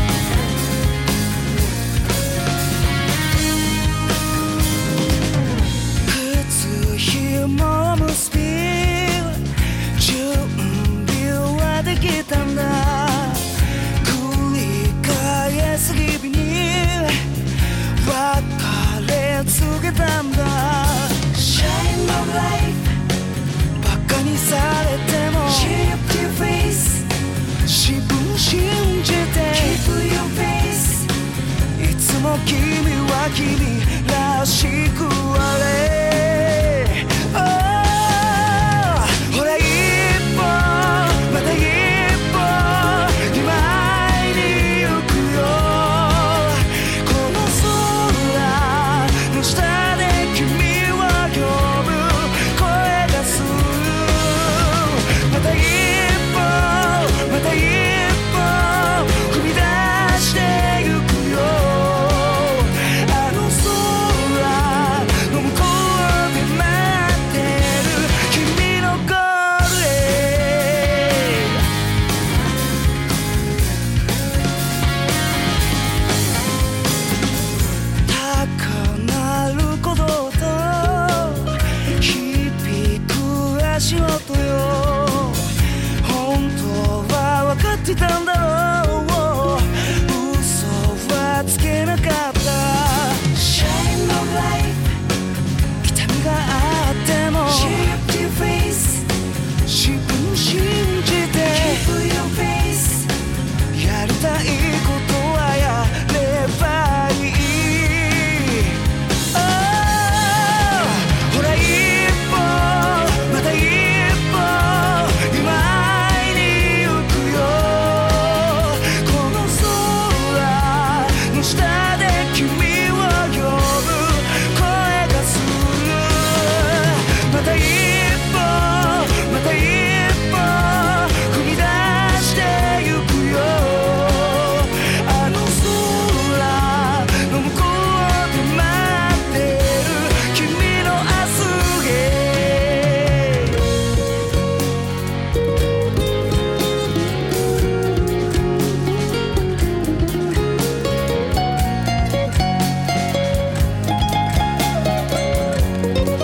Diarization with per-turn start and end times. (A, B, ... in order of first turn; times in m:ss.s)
0:06.0-0:23.0 A
0:23.8-0:27.1 A
0:27.6-0:31.1 A
0:31.7-1:11.6 A
1:18.0-1:35.0 A
1:35.8-1:39.1 A
1:39.6-1:43.1 A
1:43.7-2:23.6 A